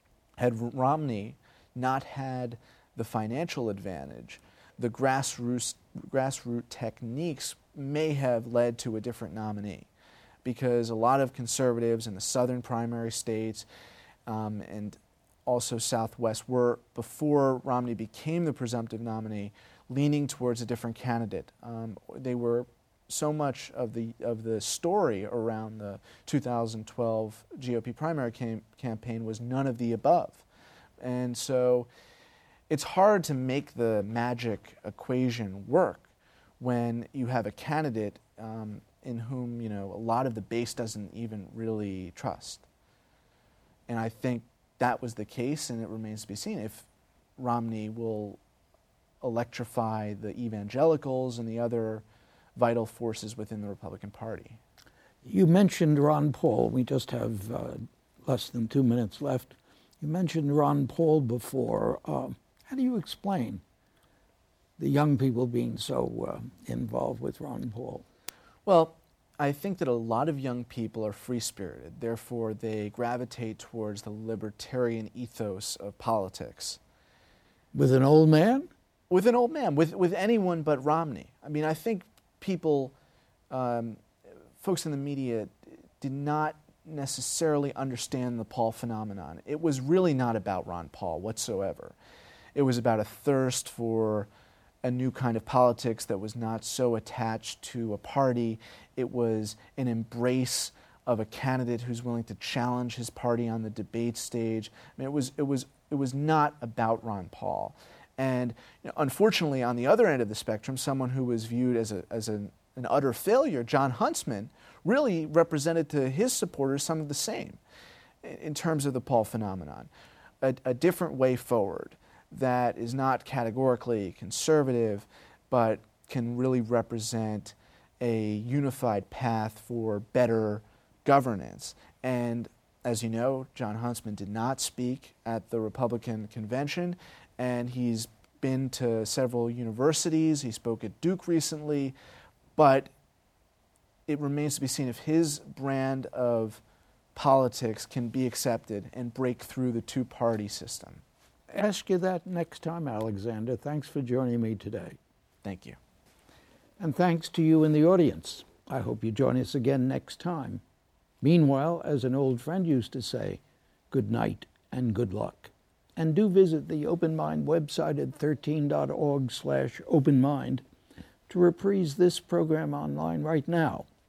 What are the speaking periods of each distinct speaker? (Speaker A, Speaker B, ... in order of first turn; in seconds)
Speaker A: 0.4-9.9, 10.4-13.7, 14.3-30.4, 31.0-31.9, 32.7-36.1, 36.6-42.6, 43.9-46.9, 47.4-48.4, 49.2-52.0, 52.5-54.6, 68.7-76.8, 79.1-82.9, 83.5-84.0, 84.6-92.0, 92.5-94.3, 94.8-117.6, 118.2-119.9, 120.4-141.9, 142.6-142.9, 144.1-146.6, 147.1-151.0, 155.4-155.8
Speaker B: 55.2-63.6, 64.8-68.0, 77.7-78.7, 151.5-155.0, 156.8-160.6, 161.2-163.4, 163.9-170.6, 171.3-173.9